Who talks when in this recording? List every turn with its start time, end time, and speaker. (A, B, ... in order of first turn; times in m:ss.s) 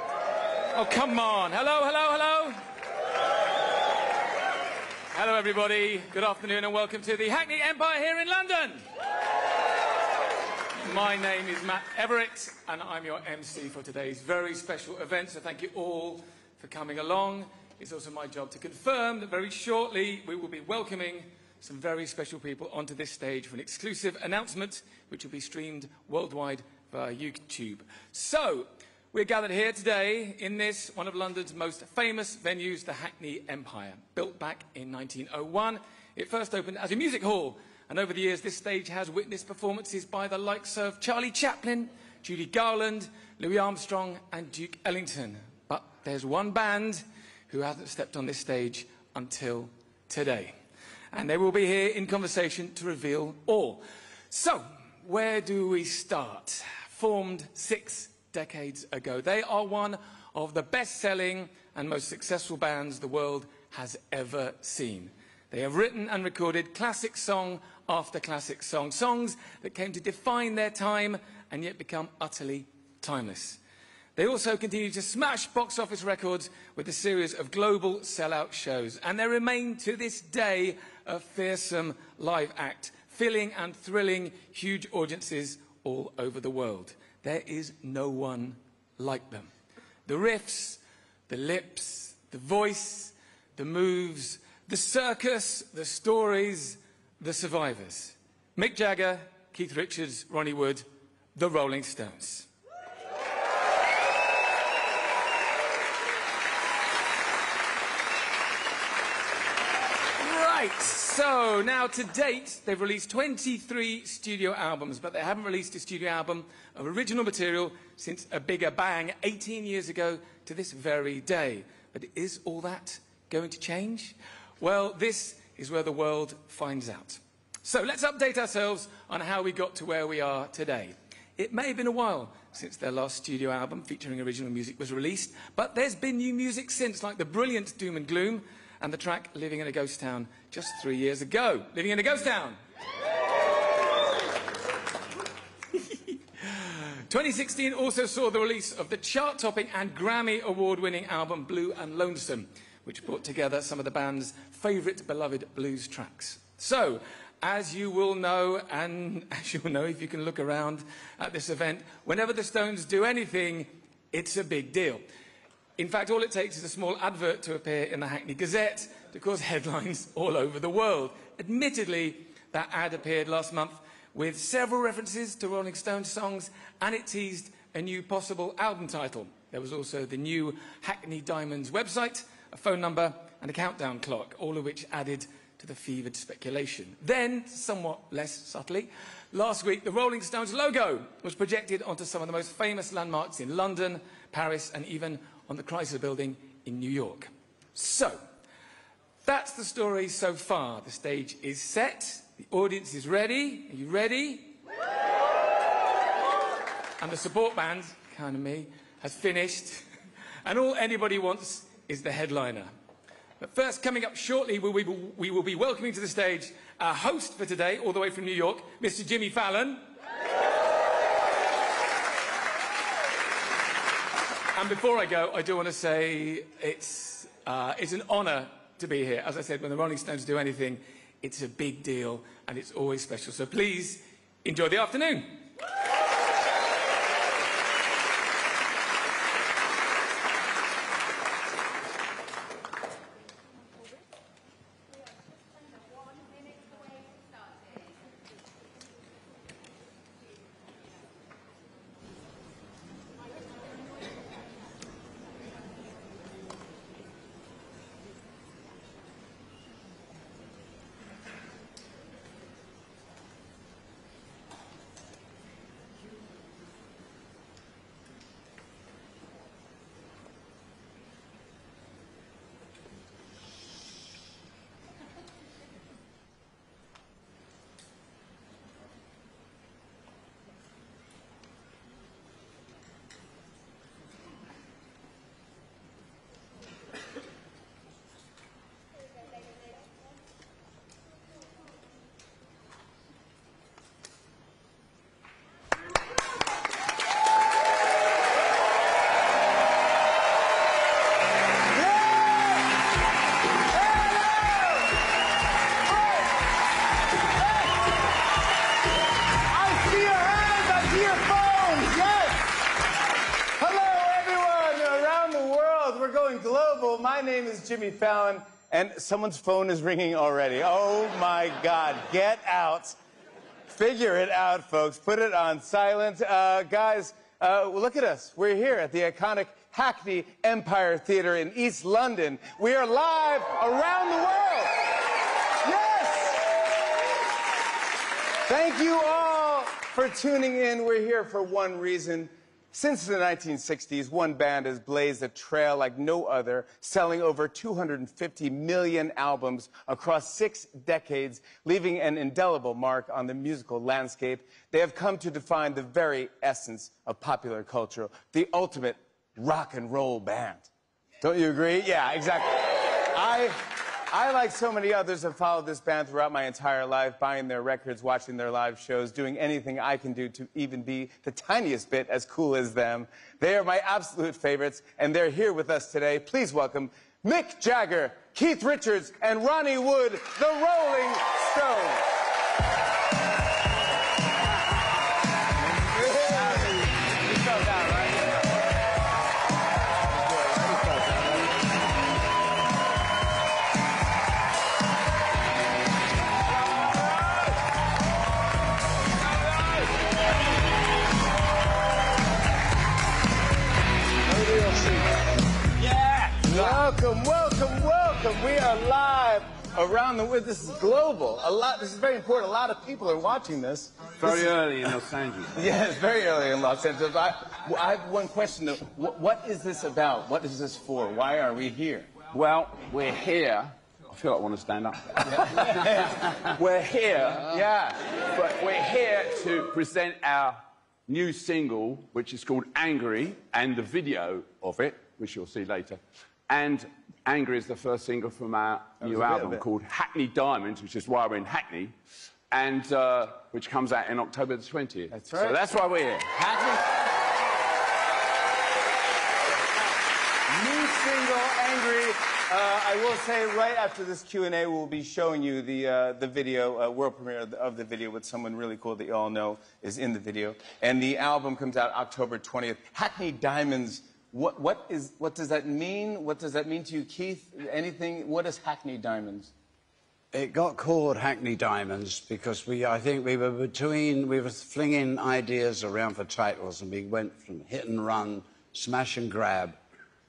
0:00.7-0:02.6 A
0:05.1-0:08.8 A
0:10.8-0:50.6 A
0:51.1-1:13.6 A
1:14.2-1:29.5 A
1:30.1-1:42.5 A
1:50.2-2:22.6 A
2:25.9-2:45.0 A
2:45.8-3:18.2 A
3:19.2-3:24.6 A
3:27.0-3:29.9 A
3:30.4-3:32.7 A
3:33.4-3:39.9 A
3:44.5-3:55.4 A
5:01.7-5:02.7 B
5:03.7-5:04.9 B
5:05.9-5:06.3 B
5:07.4-5:07.8 B
5:09.5-5:12.6 B
5:13.6-5:23.0 B
5:23.7-5:34.8 B
5:35.6-5:36.5 B
5:38.5-6:00.7 B
6:01.2-6:22.0 B
6:25.7-6:28.4 B
6:30.2-6:31.5 B
6:39.3-6:39.9 C
6:44.3-6:45.2 D
6:45.8-6:46.7 C
6:46.4-6:54.9 B
6:54.1-6:55.6 C
6:55.6-7:02.1 B
7:02.3-7:05.6 C
7:05.3-7:06.3 B
7:05.4-7:06.6 D
7:06.5-7:07.6 C
7:07.3-7:08.0 B
7:08.2-7:22.0 C
7:19.0-7:19.6 B
7:22.5-7:26.3 C
7:25.1-7:25.7 B
7:26.3-7:26.8 B
7:30.5-7:49.5 B
7:50.3-7:59.8 D